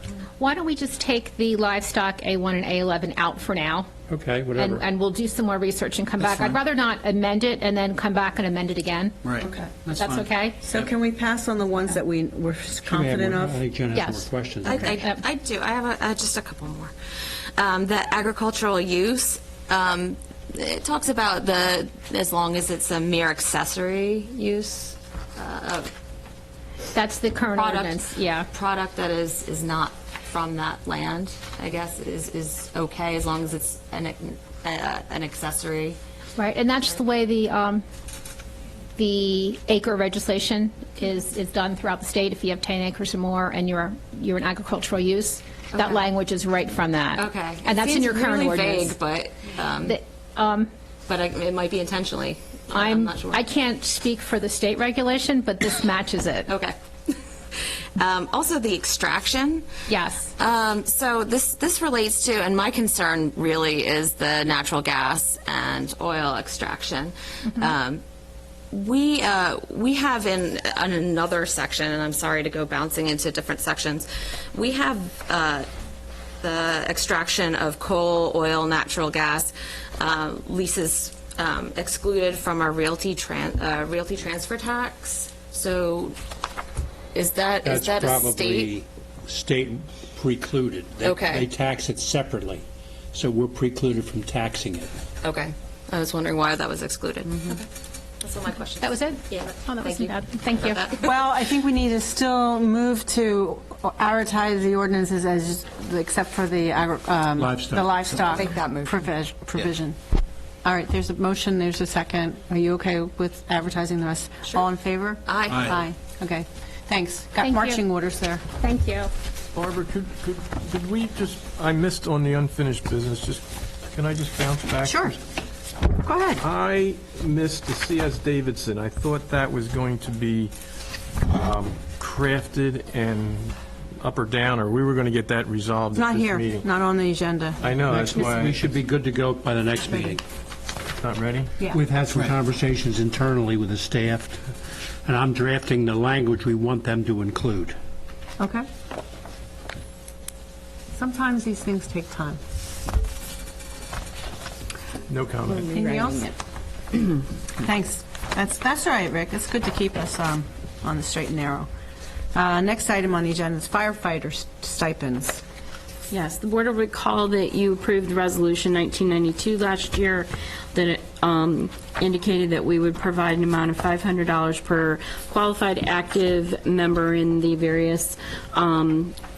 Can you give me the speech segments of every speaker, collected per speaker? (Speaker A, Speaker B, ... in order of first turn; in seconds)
Speaker A: 0.4-3.9, 4.5-9.2, 9.9-10.6, 13.9-15.2, 26.9-28.5, 36.4-37.8, 39.0-49.0, 49.8-50.7, 52.7-56.5, 59.9-60.3, 67.4-67.7, 98.8-100.8, 117.4-117.8, 118.6-119.1
Speaker B: 4.1-4.8, 12.8-14.9, 87.6-94.9, 107.4-108.5, 137.8-140.2, 141.7-147.8
Speaker C: 9.4-9.8, 10.6-13.6, 101.0-110.0, 110.6-118.4, 124.8-125.2, 125.9-126.4, 135.9-137.6, 148.4-148.7, 150.9-152.4, 155.7-156.3, 157.6-161.7, 162.3-165.4
Speaker D: 14.6-16.9, 17.6-25.9, 27.5-36.0, 45.7-46.0, 47.1-50.0, 51.1-53.5, 56.5-59.7, 60.3-68.0, 68.7-75.7, 76.4-86.2, 87.1-88.7, 91.0-91.5, 95.2-97.7, 98.2-101.1, 108.3-108.8, 115.2-115.8
Speaker E: 119.5-125.2, 126.4-130.5, 131.2-136.7, 137.6-138.6, 141.0-141.6, 155.1-155.7
Speaker F: 155.5-156.3, 166.1-179.2